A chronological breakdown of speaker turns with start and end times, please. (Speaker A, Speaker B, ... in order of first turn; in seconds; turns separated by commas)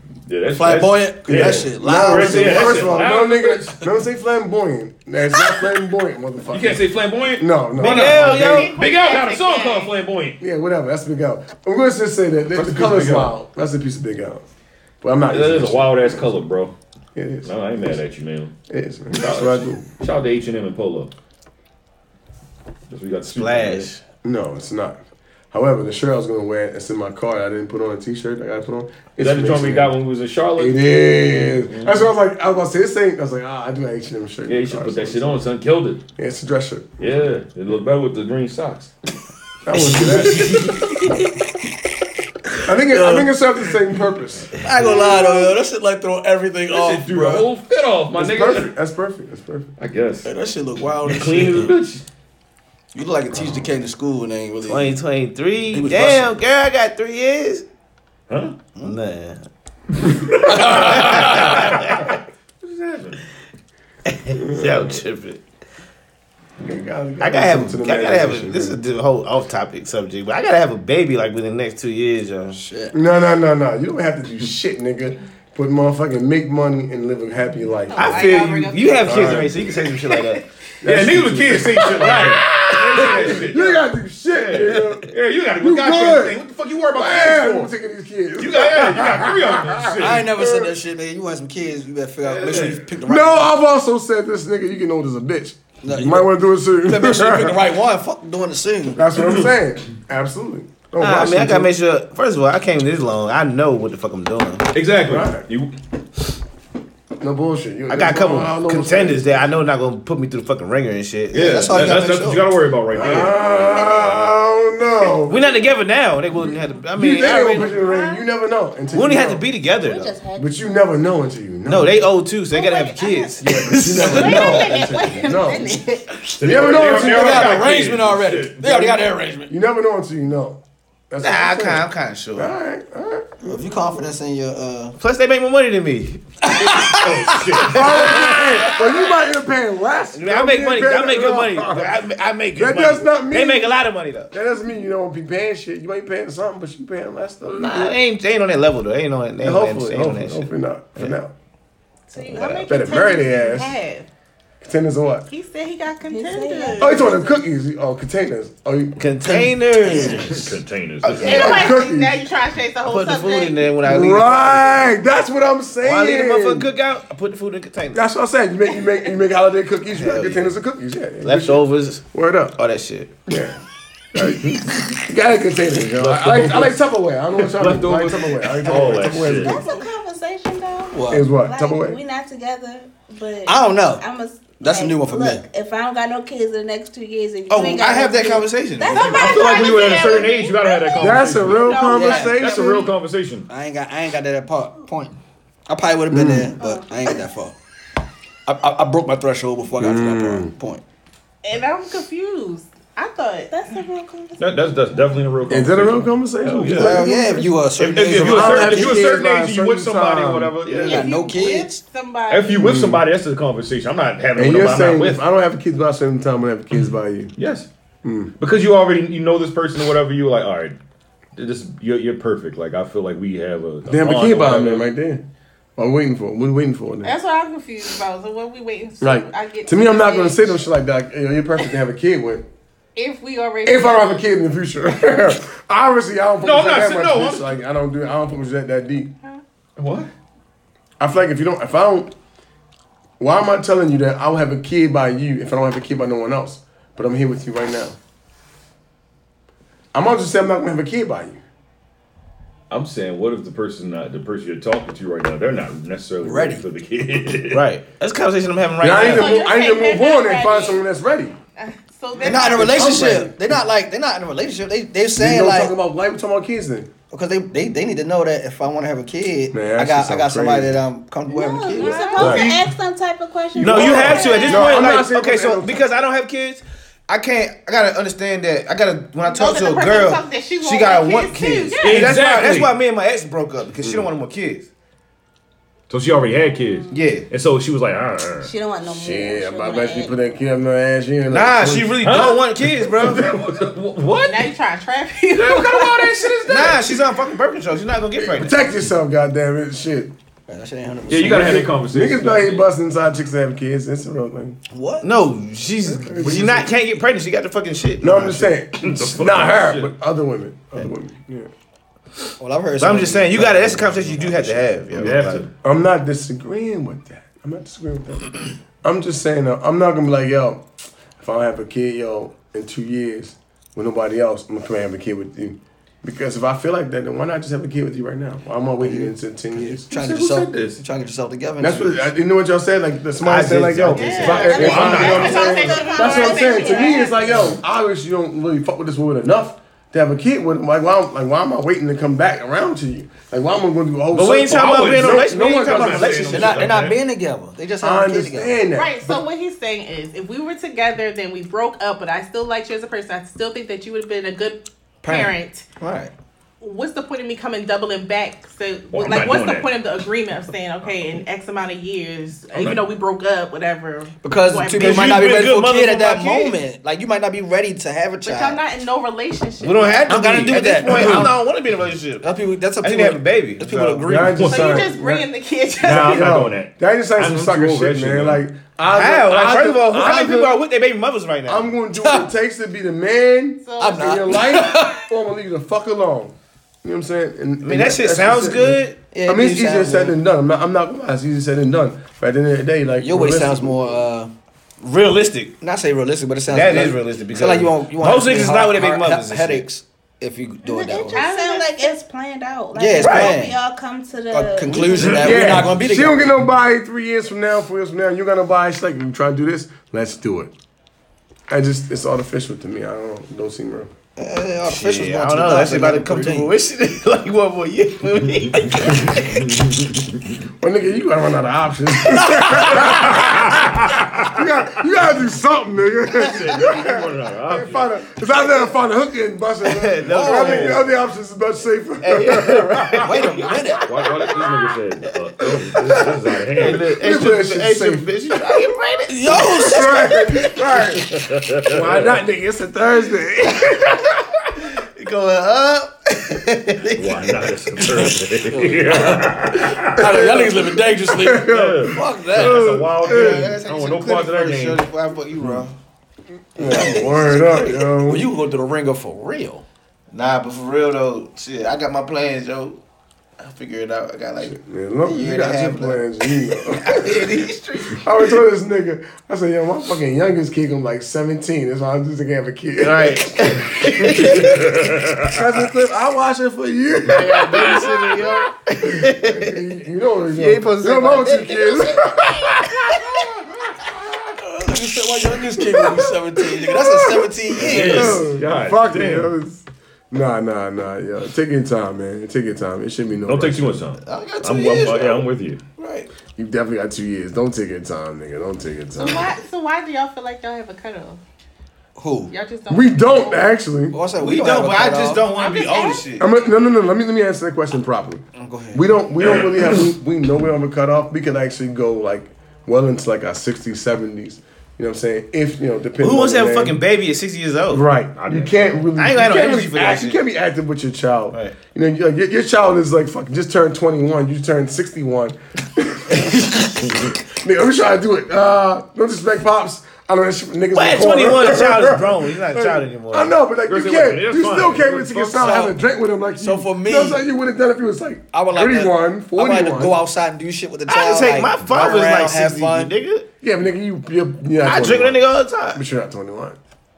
Speaker A: 0.3-3.8, Speaker B: 0.5-3.0, Speaker C: 1.2-8.7, Speaker A: 6.5-10.4, Speaker D: 7.8-8.8, Speaker E: 8.4-9.9, Speaker C: 10.4-14.5, Speaker A: 12.5-13.3, Speaker C: 15.0-16.4, Speaker A: 15.3-16.7, Speaker C: 17.1-18.0, Speaker A: 17.4-18.5, Speaker C: 18.7-19.9, Speaker A: 19.1-21.1, Speaker A: 22.9-23.9, Speaker D: 23.3-24.0, Speaker C: 24.2-25.0, Speaker C: 25.5-29.9, Speaker A: 29.2-32.1, Speaker C: 30.6-35.5, Speaker A: 34.5-36.0, Speaker C: 36.2-37.3, Speaker A: 37.0-38.9, Speaker C: 39.6-40.9, Speaker B: 39.7-41.6, Speaker B: 42.5-43.3, Speaker C: 42.6-44.5, Speaker B: 44.5-47.5, Speaker F: 44.8-45.5, Speaker A: 46.7-48.7, Speaker C: 48.1-49.7, Speaker A: 49.8-50.3, Speaker B: 50.2-51.7, Speaker A: 51.0-52.0, Speaker B: 52.9-55.0, Speaker D: 54.6-57.7, Speaker B: 55.7-56.4, Speaker A: 58.3-58.6, Speaker D: 58.8-59.5, Speaker A: 60.0-63.2, Speaker B: 60.5-61.6, Speaker D: 60.5-62.1, Speaker D: 64.1-65.4, Speaker C: 64.3-64.8, Speaker C: 66.6-68.8, Speaker D: 67.2-72.6, Speaker B: 72.5-72.9, Speaker C: 72.9-78.2, Speaker E: 77.9-79.5, Speaker D: 78.0-80.4, Speaker C: 79.1-79.5, Speaker A: 79.1-79.5, Speaker C: 80.8-86.4, Speaker A: 80.8-87.7, Speaker B: 82.0-82.3, Speaker C: 86.9-90.8, Speaker A: 88.4-90.3, Speaker B: 89.9-93.6, Speaker A: 92.2-92.9, Speaker C: 93.0-97.6, Speaker B: 95.8-99.0, Speaker C: 98.9-101.7, Speaker D: 101.0-104.7, Speaker A: 104.7-105.7, Speaker C: 105.0-105.5, Speaker C: 107.2-109.5, Speaker D: 107.9-112.0, Speaker A: 111.3-114.0, Speaker B: 111.3-112.6, Speaker C: 112.9-115.4, Speaker F: 113.4-114.1, Speaker D: 115.3-117.8, Speaker C: 116.9-119.4, Speaker F: 117.7-118.2, Speaker D: 118.9-120.2, Speaker F: 119.8-120.6, Speaker C: 120.4-122.0, Speaker D: 121.7-123.7, Speaker E: 122.6-123.3, Speaker F: 122.8-123.1, Speaker C: 123.4-125.8, Speaker B: 123.7-124.5, Speaker E: 124.0-126.0, Speaker B: 126.3-129.5, Speaker A: 126.4-129.0, Speaker C: 126.4-127.6, Speaker C: 129.5-133.6, Speaker D: 131.2-132.5, Speaker B: 133.4-134.9, Speaker D: 135.0-136.8, Speaker B: 136.5-137.6, Speaker A: 136.9-138.5, Speaker C: 137.6-142.0, Speaker D: 138.1-138.7, Speaker D: 140.1-144.3, Speaker C: 142.6-143.8, Speaker C: 144.3-148.0, Speaker D: 147.5-151.2, Speaker C: 149.4-151.3, Speaker E: 152.1-154.1, Speaker D: 152.2-152.7, Speaker C: 152.3-153.8, Speaker C: 154.6-155.3, Speaker E: 155.3-157.1, Speaker F: 156.1-157.4, Speaker C: 156.8-159.0, Speaker D: 159.0-160.4, Speaker B: 159.2-160.4, Speaker A: 160.0-161.7, Speaker D: 161.0-161.6, Speaker E: 161.2-163.7, Speaker C: 161.2-162.2, Speaker D: 162.9-164.9, Speaker C: 163.8-166.7, Speaker D: 165.8-168.0, Speaker C: 167.9-172.6, Speaker D: 169.9-170.6, Speaker D: 171.2-172.0, Speaker D: 172.6-173.2, Speaker C: 173.3-173.6, Speaker C: 174.1-179.6, Speaker A: 175.9-176.8, Speaker A: 177.4-179.6, Speaker F: 178.8-190.3, Speaker B: 180.9-181.2, Speaker C: 181.1-182.0, Speaker B: 183.4-184.1, Speaker B: 184.6-185.4, Speaker D: 187.5-189.2, Speaker E: 188.9-192.8, Speaker A: 189.0-193.5, Speaker C: 191.0-192.9, Speaker B: 191.8-192.5, Speaker B: 193.5-195.2, Speaker B: 195.7-197.6, Speaker C: 196.1-196.5, Speaker F: 196.6-196.9, Speaker B: 198.5-200.8, Speaker C: 199.8-200.5, Speaker E: 201.4-203.8, Speaker F: 203.5-205.2, Speaker A: 204.4-207.1, Speaker C: 205.5-207.2, Speaker B: 206.7-209.1, Speaker F: 207.0-207.5, Speaker A: 207.8-211.0, Speaker C: 208.1-211.0, Speaker B: 210.7-211.8, Speaker E: 210.8-212.7, Speaker A: 212.3-215.2, Speaker C: 212.6-213.0, Speaker C: 214.3-217.3, Speaker A: 217.4-217.7, Speaker C: 218.0-218.3, Speaker A: 218.4-220.8, Speaker A: 221.3-224.9, Speaker C: 223.8-225.2, Speaker C: 225.8-227.2, Speaker E: 227.0-230.6, Speaker C: 229.0-232.5, Speaker E: 233.0-234.2, Speaker C: 233.7-239.1, Speaker A: 236.5-237.4, Speaker A: 239.8-240.1, Speaker C: 241.0-242.1, Speaker C: 243.2-248.0, Speaker C: 249.9-251.4, Speaker A: 252.7-257.6, Speaker B: 256.2-256.6, Speaker D: 257.5-259.4, Speaker C: 258.8-261.4, Speaker E: 258.9-260.8, Speaker E: 261.6-263.1, Speaker B: 262.2-265.7, Speaker C: 262.5-263.6, Speaker C: 265.2-266.9, Speaker B: 267.1-272.1, Speaker C: 269.5-270.8, Speaker F: 271.3-274.6, Speaker E: 271.8-272.5, Speaker A: 272.1-272.7, Speaker A: 273.6-274.6, Speaker D: 273.6-284.7, Speaker C: 273.6-275.8, Speaker E: 274.0-274.9, Speaker E: 279.2-282.2, Speaker A: 281.8-282.7, Speaker A: 285.9-288.5, Speaker F: 286.5-286.9, Speaker D: 286.9-287.3, Speaker F: 288.4-290.2, Speaker C: 288.9-292.2, Speaker D: 291.3-293.3, Speaker A: 292.0-294.5, Speaker E: 294.3-296.4, Speaker A: 295.3-297.1, Speaker D: 296.4-298.7, Speaker C: 298.2-300.1, Speaker B: 300.5-301.8, Speaker A: 301.1-302.7, Speaker C: 301.1-304.6, Speaker B: 304.7-305.1, Speaker D: 305.0-308.5, Speaker C: 305.9-306.7, Speaker C: 308.0-311.5, Speaker A: 308.8-309.9, Speaker B: 312.4-315.1, Speaker D: 312.8-315.5, Speaker A: 314.9-315.5, Speaker C: 315.6-329.9, Speaker B: 328.8-332.1, Speaker A: 329.9-330.8, Speaker C: 331.6-346.5, Speaker D: 333.2-335.3, Speaker E: 333.9-337.2, Speaker A: 334.2-335.6, Speaker F: 334.6-337.5, Speaker D: 344.1-346.7, Speaker A: 344.2-347.0, Speaker B: 346.2-348.6, Speaker C: 347.8-349.2, Speaker E: 348.7-355.6, Speaker B: 355.0-356.1, Speaker E: 356.6-365.3, Speaker A: 358.9-359.7, Speaker A: 362.6-362.8, Speaker B: 364.2-368.6, Speaker A: 364.7-365.9, Speaker D: 364.9-366.6, Speaker E: 368.2-370.0, Speaker D: 369.6-374.1, Speaker B: 370.1-371.4, Speaker A: 370.1-371.2, Speaker B: 372.2-374.8, Speaker C: 374.1-375.3, Speaker A: 374.4-374.6, Speaker E: 374.5-376.5, Speaker A: 375.8-378.4, Speaker C: 375.8-380.6, Speaker D: 378.9-381.7, Speaker C: 381.5-394.1, Speaker B: 382.0-382.3, Speaker E: 383.6-384.6, Speaker B: 383.8-385.1, Speaker D: 387.6-389.0, Speaker B: 389.1-390.2, Speaker B: 393.0-394.3, Speaker D: 394.8-395.5, Speaker B: 395.6-401.2, Speaker D: 396.5-399.7, Speaker F: 400.6-405.3, Speaker E: 401.1-402.0, Speaker B: 402.8-403.6, Speaker D: 403.0-403.4, Speaker B: 404.3-406.3, Speaker D: 404.7-405.1, Speaker C: 405.1-410.5, Speaker C: 411.5-413.9, Speaker B: 414.2-416.5, Speaker D: 414.6-419.3, Speaker A: 419.1-420.4, Speaker C: 420.6-433.1, Speaker A: 422.5-424.4, Speaker A: 426.1-427.9, Speaker D: 429.6-430.8, Speaker B: 430.1-430.8, Speaker A: 430.3-430.9, Speaker D: 432.0-433.5, Speaker B: 433.0-433.9, Speaker A: 433.8-436.9, Speaker C: 435.8-438.1, Speaker D: 436.6-440.9, Speaker B: 439.1-440.1, Speaker C: 439.6-441.1, Speaker A: 441.1-442.2, Speaker C: 441.7-444.2, Speaker D: 444.6-447.5, Speaker A: 446.9-450.2, Speaker B: 447.8-452.8, Speaker C: 450.0-453.6, Speaker A: 451.4-454.8, Speaker D: 453.0-455.8, Speaker C: 456.6-458.3, Speaker B: 456.6-459.6, Speaker D: 456.6-457.6, Speaker D: 460.1-462.8, Speaker D: 463.4-468.0, Speaker C: 464.4-478.1, Speaker D: 472.8-474.6, Speaker A: 474.5-475.4, Speaker D: 477.1-479.6, Speaker C: 479.0-484.2, Speaker D: 480.3-483.0, Speaker B: 484.4-488.4, Speaker C: 485.4-493.8, Speaker A: 487.6-489.3, Speaker A: 493.2-495.6, Speaker D: 494.0-496.1, Speaker C: 496.4-499.3, Speaker E: 499.0-501.2, Speaker B: 502.0-502.3, Speaker E: 502.3-503.4, Speaker C: 502.7-504.0, Speaker B: 503.9-505.3, Speaker D: 504.2-506.3, Speaker E: 505.3-506.1, Speaker C: 506.2-516.8, Speaker B: 508.4-508.8, Speaker A: 509.3-509.6, Speaker D: 516.0-517.9, Speaker C: 517.7-540.0, Speaker A: 518.2-518.8, Speaker D: 519.0-520.2, Speaker D: 530.7-533.4, Speaker A: 533.7-535.6, Speaker B: 535.4-535.8, Speaker B: 536.4-537.2, Speaker B: 538.3-542.9, Speaker D: 540.9-543.3, Speaker C: 543.4-546.6, Speaker D: 544.6-545.8